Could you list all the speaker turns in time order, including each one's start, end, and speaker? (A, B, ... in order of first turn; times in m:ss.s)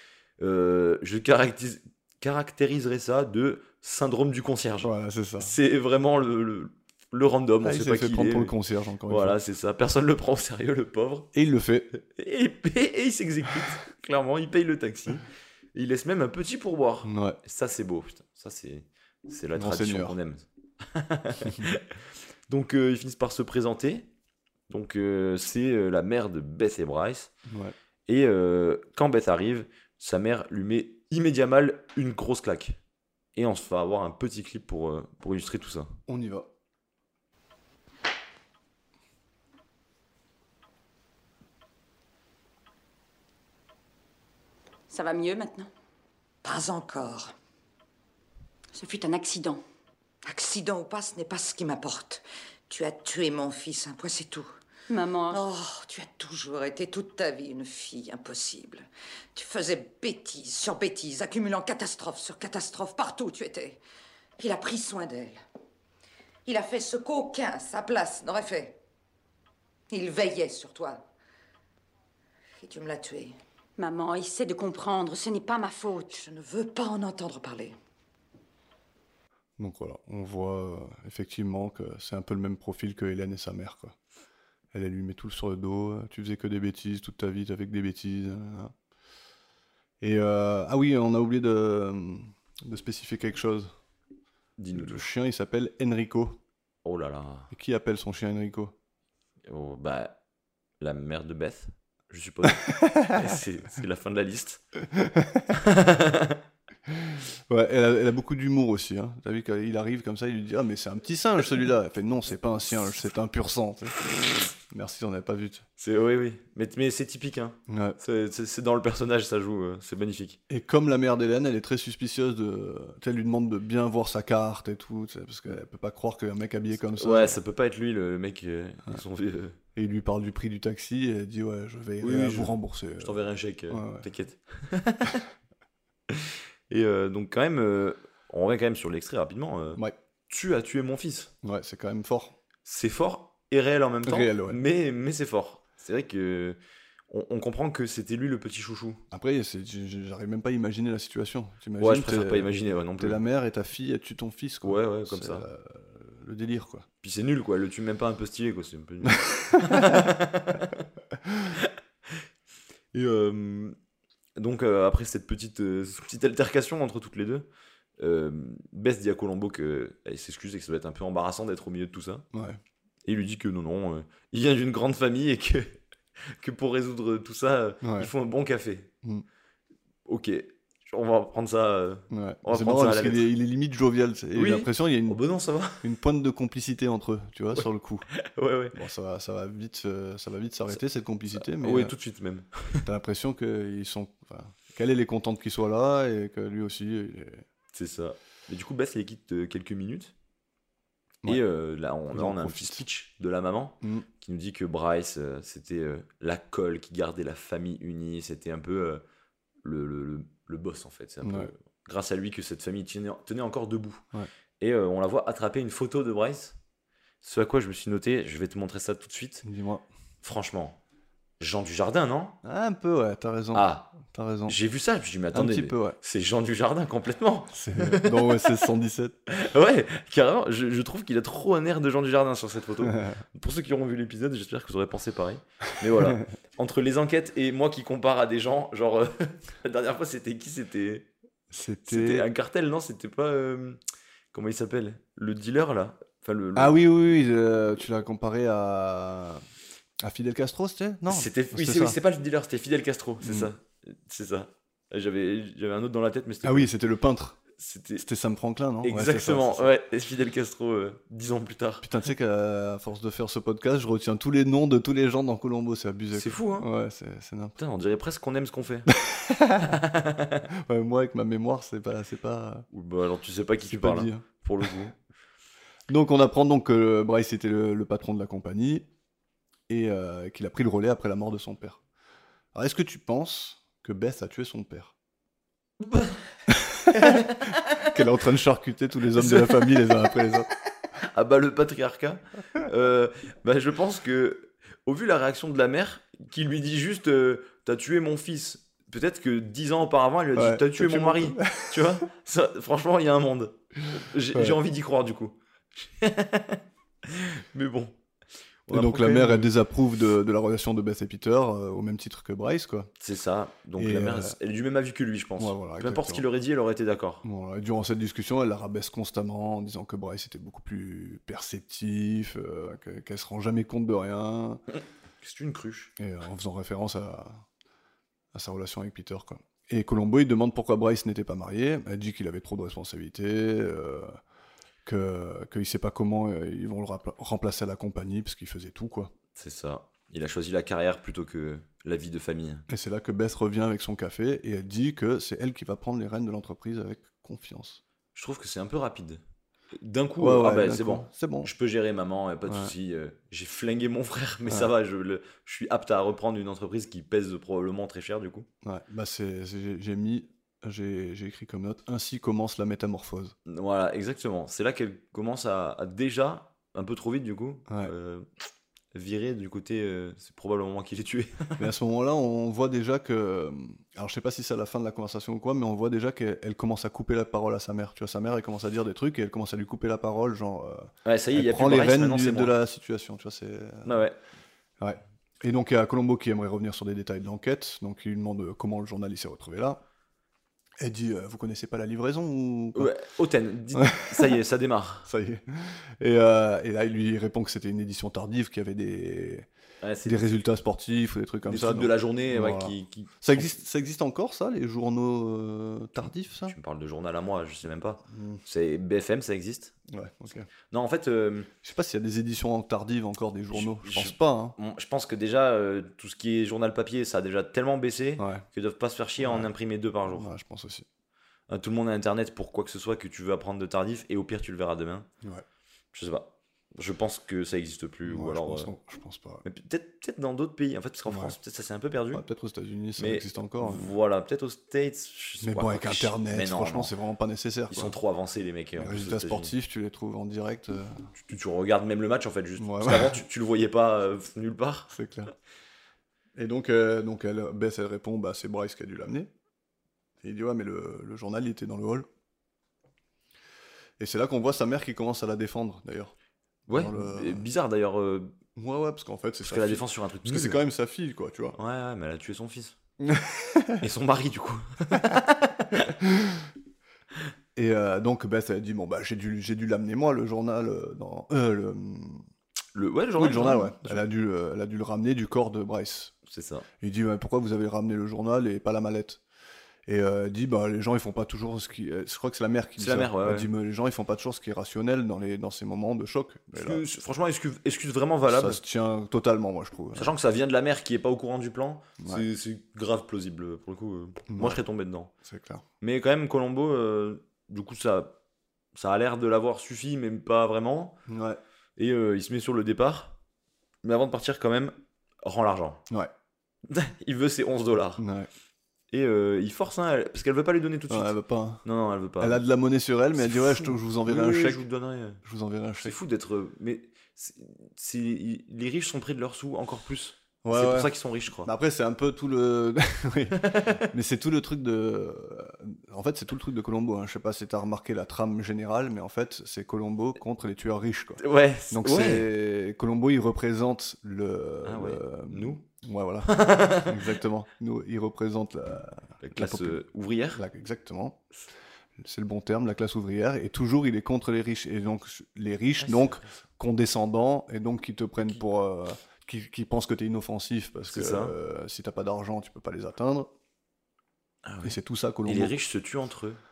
0:00.4-0:08.5 A
0:04.8-0:05.5 B
0:07.6-0:09.4 B
0:09.1-0:11.3 A
0:11.3-0:11.9 B
0:12.0-0:15.2 A
0:15.7-0:21.8 A
0:17.0-0:17.4 B
0:19.6-0:20.2 B
0:22.5-0:24.1 A
0:24.7-0:27.3 A
0:27.4-0:27.7 B
0:28.1-0:32.8 A
0:33.4-0:35.9 A
0:36.1-0:36.5 B
0:44.9-0:45.7 C
0:46.4-0:47.3 D
0:48.7-0:49.6 C
0:50.2-0:54.5 D
0:54.9-0:55.4 C
0:55.3-1:03.8 D
1:04.4-1:05.4 D
1:06.4-1:08.8 D
1:09.9-1:11.1 D
1:12.6-1:13.3 D
1:13.8-1:16.2 C
1:16.0-1:17.7 D
1:19.6-1:23.9 B
1:24.7-1:28.7 B
1:30.0-1:33.7 B
1:34.6-1:35.0 A
1:34.7-1:36.4 B
1:36.8-1:37.5 A
1:37.5-1:38.7 B
1:39.4-1:40.2 A
1:40.8-1:44.6 A
1:42.7-1:43.1 B
1:44.9-1:45.5 B
1:45.5-1:46.4 A
1:46.9-1:55.6 B
1:55.8-2:00.4 A
1:57.7-1:58.0 B
2:00.5-2:07.4 B
2:07.0-2:09.6 A
2:09.7-2:13.2 B
2:12.0-2:15.2 A
2:13.7-2:14.0 B
2:16.1-2:21.3 A
2:21.4-2:22.4 B
2:22.6-2:26.6 A
2:24.0-2:24.6 B
2:27.1-2:29.0 A
2:29.1-2:36.8 B
2:31.8-2:33.2 A
2:34.6-2:35.4 A
2:37.0-2:40.8 A
2:39.0-2:40.0 B
2:42.9-2:43.8 A
2:44.4-2:47.5 A
2:48.0-2:52.2 A
2:52.3-2:52.6 B
2:53.0-2:55.8 A
2:56.4-2:58.9 A
2:57.8-2:58.1 B
3:00.0-3:03.3 A
3:02.1-3:05.2 B
3:04.3-3:05.8 A
3:05.8-3:08.0 B
3:07.6-3:08.8 A
3:08.7-3:11.9 B
3:11.4-3:12.8 A
3:12.8-3:17.4 B
3:17.7-3:20.1 A
3:21.2-3:29.0 A
3:22.1-3:22.8 B
3:23.8-3:24.1 B
3:29.6-3:34.0 A
3:31.2-3:31.5 B
3:34.6-3:36.6 A
3:37.2-3:39.4 A
3:39.4-3:39.9 B
3:40.2-3:40.8 A
3:41.4-3:42.4 A
3:42.4-3:44.6 B
3:43.5-3:43.9 A
3:44.5-3:48.5 A
3:45.3-3:46.0 B
3:47.5-3:49.2 B
3:49.3-4:01.1 A
3:52.8-3:53.2 B
3:56.0-3:56.2 B
4:01.5-4:02.2 B
4:01.9-4:03.8 A
4:04.3-4:06.8 A
4:06.6-4:09.4 B
4:10.0-4:12.0 B
4:11.1-4:16.7 A
4:13.2-4:13.5 B
4:16.4-4:17.4 B
4:17.6-4:18.0 A
4:18.0-4:19.7 B
4:18.8-4:21.8 A
4:21.8-4:27.6 B
4:26.1-4:26.7 A
4:27.6-4:28.9 A
4:28.9-4:29.8 B
4:29.6-4:30.5 A
4:30.5-4:32.7 B
4:32.7-4:35.0 A
4:33.6-4:34.2 B
4:35.9-4:38.9 B
4:39.7-4:41.8 B
4:42.5-4:44.9 B
4:45.8-4:46.2 A
4:46.5-4:47.2 B
4:46.9-4:47.9 A
4:47.8-4:50.5 B
4:49.2-4:49.9 A
4:51.1-5:07.9 A
5:00.3-5:02.0 B
5:04.3-5:04.6 B
5:08.7-5:09.5 A
5:08.7-5:12.9 B
5:13.0-5:17.2 A
5:13.8-5:14.4 B
5:15.4-5:16.2 B
5:17.2-5:24.6 B
5:24.7-5:25.9 A
5:26.0-5:27.4 B
5:28.3-5:34.2 B
5:34.8-5:39.1 B
5:39.4-5:42.6 A
5:42.7-5:47.8 B
5:48.1-5:49.2 A
5:49.7-5:58.5 A
5:50.2-5:51.5 B
5:52.4-5:52.7 B
5:58.6-6:03.4 B
6:03.5-6:08.2 A
6:07.7-6:07.9 B
6:08.9-6:11.6 A
6:11.6-6:24.0 B
6:21.0-6:22.5 A
6:23.8-6:24.2 A
6:24.8-6:29.8 B
6:30.8-6:32.9 B
6:32.7-6:35.1 A
6:33.7-6:34.3 B
6:35.0-6:39.5 B
6:39.8-6:40.2 A
6:40.0-6:46.5 B
6:41.4-6:43.6 A
6:46.5-6:49.7 A
6:48.1-6:48.4 B
6:49.9-6:50.5 B
6:50.7-6:51.5 A
6:51.6-6:54.6 B
6:53.5-7:00.3 A
6:58.2-6:58.4 B
6:59.2-6:59.5 B
7:00.1-7:00.8 B
7:01.5-7:05.1 A
7:05.9-7:08.7 A
7:08.0-7:09.4 B
7:09.4-7:12.2 A
7:11.1-7:11.3 B
7:12.1-7:13.9 B
7:13.0-7:16.9 A
7:15.4-7:17.9 B
7:17.7-7:19.5 A
7:18.8-7:21.1 B
7:21.2-7:24.9 A
7:22.6-7:23.2 B
7:24.9-7:25.3 B
7:26.3-7:29.3 B
7:30.2-7:32.1 B
7:34.0-7:36.1 B
7:36.7-7:38.3 A
7:36.7-7:37.5 B
7:38.6-7:41.6 B
7:39.4-7:40.6 A
7:41.6-7:42.8 A
7:43.0-7:43.8 B
7:43.8-7:45.9 A
7:46.0-7:46.5 B
7:47.5-7:52.2 B
7:52.7-7:54.0 A
7:53.2-7:56.1 B
7:56.3-7:56.6 A
7:56.8-7:59.2 B
7:59.8-8:06.8 B
8:02.8-8:03.5 A
8:06.5-8:08.6 A
8:08.2-8:10.1 B
8:09.9-8:15.1 A
8:12.0-8:12.2 B
8:14.3-8:14.6 B
8:15.2-8:15.6 B
8:15.8-8:18.2 A
8:18.7-8:21.0 A
8:21.1-8:21.4 B
8:21.8-8:23.2 A
8:23.8-8:25.8 A
8:26.7-8:28.0 A
8:28.0-8:28.3 B
8:28.9-8:32.4 A
8:30.9-8:31.6 B
8:32.2-8:34.6 B
8:33.2-8:35.2 A
8:35.2-8:36.0 B
8:35.8-8:41.5 A
8:40.4-8:59.8 B
8:43.4-8:43.8 A
8:51.2-8:52.3 A
8:54.6-8:55.6 A
8:56.3-8:56.9 A
8:59.2-9:00.4 A
9:00.3-9:01.2 B
9:02.0-9:13.3 B
9:05.8-9:06.4 A
9:10.9-9:11.3 A
9:14.4-9:16.4 A
9:14.6-9:15.6 B